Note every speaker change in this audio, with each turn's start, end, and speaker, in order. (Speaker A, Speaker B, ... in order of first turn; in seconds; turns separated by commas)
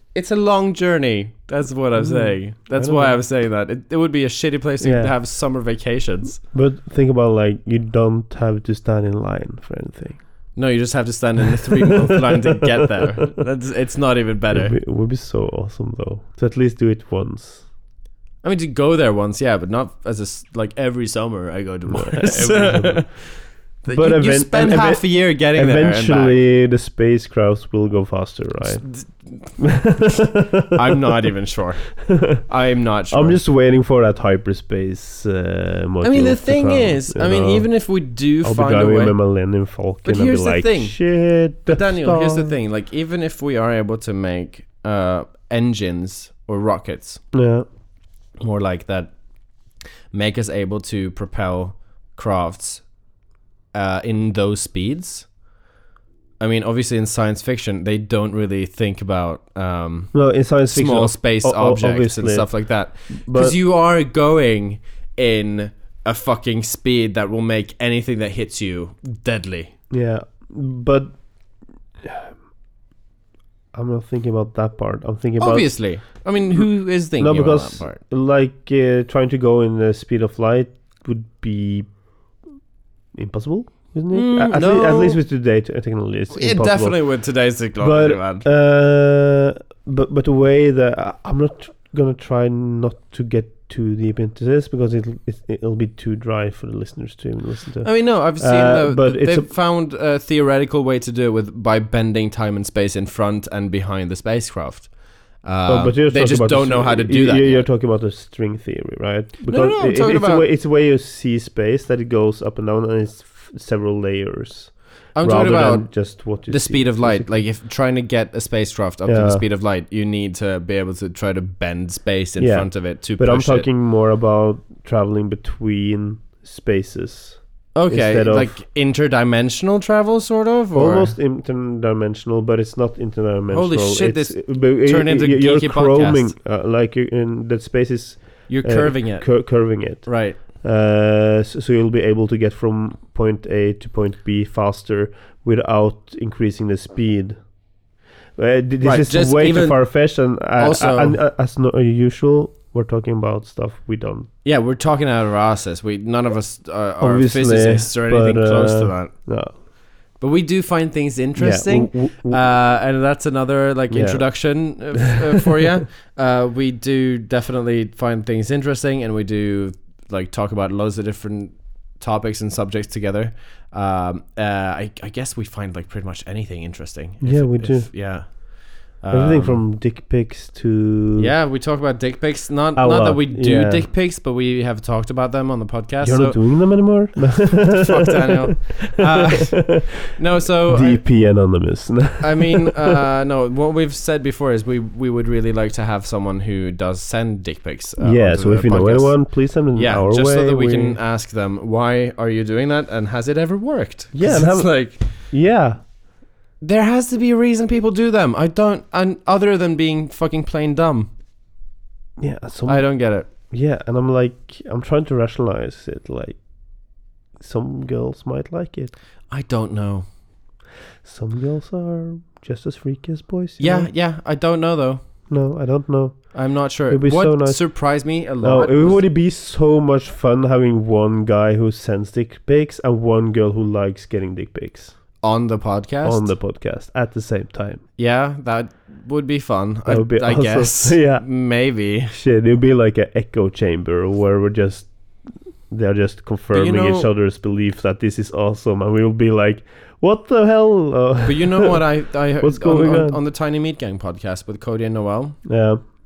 Speaker A: 0.1-6.4, Speaker B: 2.0-3.2, Speaker B: 4.8-5.1, Speaker B: 6.5-10.2, Speaker A: 10.6-14.8, Speaker B: 11.8-13.3, Speaker B: 14.5-17.6, Speaker A: 18.4-23.3, Speaker B: 21.9-23.1, Speaker A: 23.8-26.3, Speaker B: 23.9-28.9, Speaker A: 28.8-29.3, Speaker B: 29.6-31.0, Speaker A: 30.7-33.4, Speaker B: 32.0-32.4, Speaker B: 33.1-37.7, Speaker A: 36.0-39.1, Speaker B: 38.4-42.5, Speaker A: 40.0-41.0, Speaker A: 41.7-47.2, Speaker B: 47.3-47.6, Speaker A: 48.4-49.1, Speaker A: 50.1-52.8, Speaker A: 53.7-55.3, Speaker A: 56.4-69.7, Speaker B: 60.1-62.5, Speaker B: 63.1-63.5, Speaker B: 69.9-71.2, Speaker B: 72.0-72.3, Speaker B: 73.7-81.9, Speaker A: 75.4-78.0, Speaker B: 83.1-87.0, Speaker A: 84.1-85.2, Speaker A: 86.3-88.4, Speaker B: 87.8-99.5, Speaker A: 97.8-107.6, Speaker B: 105.7-117.3, Speaker A: 109.4-110.5, Speaker A: 115.1-123.7, Speaker B: 119.0-119.4, Speaker B: 122.4-128.5, Speaker A: 127.7-131.1, Speaker B: 130.7-147.4, Speaker A: 133.5-136.3, Speaker A: 138.5-140.4, Speaker B: 148.4-154.3, Speaker A: 148.8-150.1, Speaker A: 150.6-151.2, Speaker A: 154.4-159.1, Speaker B: 157.0-159.5, Speaker A: 160.2-179.6, Speaker B: 161.4-162.4, Speaker B: 163.9-164.2, Speaker B: 177.2-178.4, Speaker B: 179.1-181.3, Speaker A: 181.2-186.4, Speaker B: 182.8-183.9, Speaker B: 186.0-190.1, Speaker A: 187.3-191.0, Speaker B: 190.7-192.9, Speaker A: 192.2-205.0, Speaker B: 198.0-201.0, Speaker B: 204.1-205.8, Speaker A: 206.6-211.1, Speaker B: 212.2-216.4, Speaker A: 212.7-213.3, Speaker B: 217.4-218.9, Speaker A: 219.3-220.1, Speaker B: 221.0-223.9, Speaker A: 223.6-225.0, Speaker B: 225.3-226.3, Speaker A: 226.3-229.0, Speaker B: 226.9-227.8, Speaker B: 228.4-235.0, Speaker A: 235.2-236.3, Speaker B: 236.0-237.8, Speaker A: 238.0-242.1, Speaker B: 239.8-241.2, Speaker B: 242.1-244.9, Speaker B: 245.7-251.8, Speaker A: 246.5-247.1, Speaker A: 251.2-255.4, Speaker B: 252.4-253.2, Speaker B: 255.4-255.8